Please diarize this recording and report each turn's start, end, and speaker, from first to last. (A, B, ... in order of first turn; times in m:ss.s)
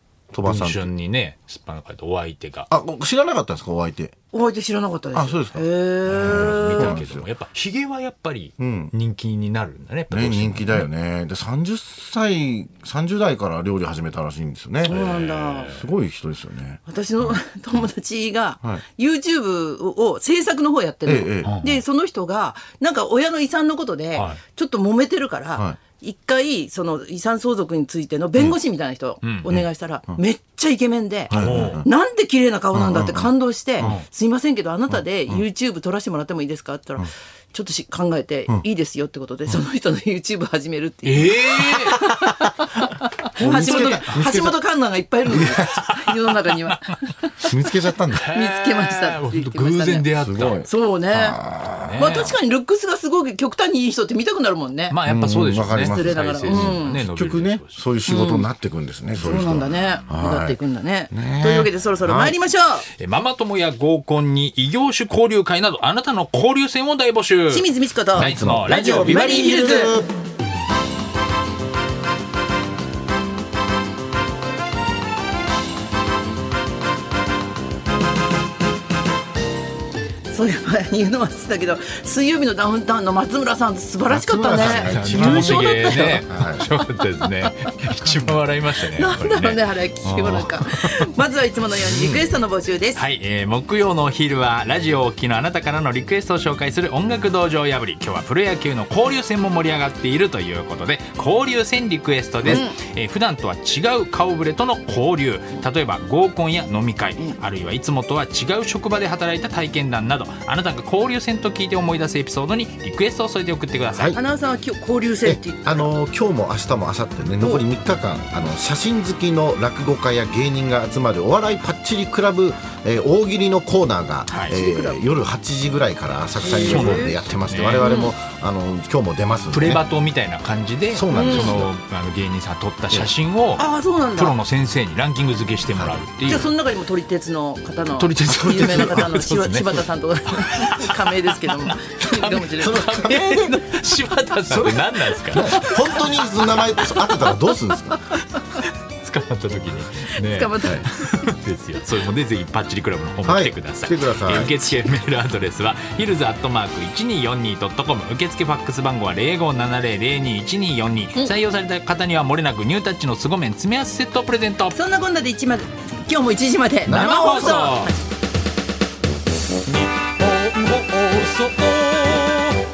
0:00.3-0:00.9 A
0:00.5-0:02.7 B
0:02.7-0:04.2 A
0:04.3-0:07.0 C
0:05.1-0:07.3 A
0:06.1-0:10.9 B
0:08.6-0:08.9 A
0:10.1-0:15.1 A
0:14.8-0:15.8 C
0:14.9-0:15.9 B
0:15.6-0:17.3 A
0:16.9-0:47.6 C
0:21.1-0:21.6 A
0:21.4-0:21.8 B
0:24.2-0:24.4 B
0:29.2-0:29.5 B
0:29.5-0:30.2 A
0:31.3-0:31.9 A
0:31.3-0:31.8 B
0:32.7-0:34.0 A
0:33.8-0:34.1 B
0:34.9-0:35.4 A
0:41.0-0:42.0 B
0:43.4-0:44.6 A
0:43.4-0:44.2 B
0:45.3-0:45.9 A
0:47.5-0:48.3 A
0:48.2-0:50.6 B
0:48.3-0:50.1 C
0:50.2-0:52.0 A
0:50.6-0:51.4 C
0:51.8-0:52.4 B
0:52.0-0:55.0 C
0:54.9-0:57.8 B
0:55.0-1:00.6 A
0:55.8-0:57.0 C
0:58.1-0:58.5 C
0:59.2-1:02.9 C
1:01.1-1:02.4 A
1:03.0-1:09.8 B
1:07.5-1:10.0 C
1:08.2-1:10.1 A
1:20.3-1:26.3 C
1:24.1-1:26.7 A
1:24.6-1:31.1 B
1:28.9-1:33.0 C
1:31.7-1:32.2 B
1:33.0-1:54.2 B
1:42.5-1:42.8 C
1:53.9-1:54.2 A
1:54.1-1:55.9 C
1:55.2-2:09.8 A
2:04.3-2:04.6 B
2:04.5-2:05.1 C
2:06.4-2:07.2 C
2:06.6-2:08.0 B
2:07.8-2:08.1 C
2:09.5-2:16.5 B
2:10.9-2:11.7 A
2:11.1-2:11.6 C
2:13.6-2:14.4 C
2:15.7-2:16.0 A
2:16.2-2:23.6 C
2:17.9-2:27.3 B
2:18.6-2:19.0 A
2:22.6-2:23.6 A
2:24.5-2:28.0 A
2:25.2-2:25.7 C
2:28.6-2:44.8 B
2:30.2-2:31.2 C
2:33.2-2:34.7 A
2:44.7-2:48.0 C
2:46.9-2:47.9 B
2:46.9-2:47.6 A
2:50.5-2:52.2 B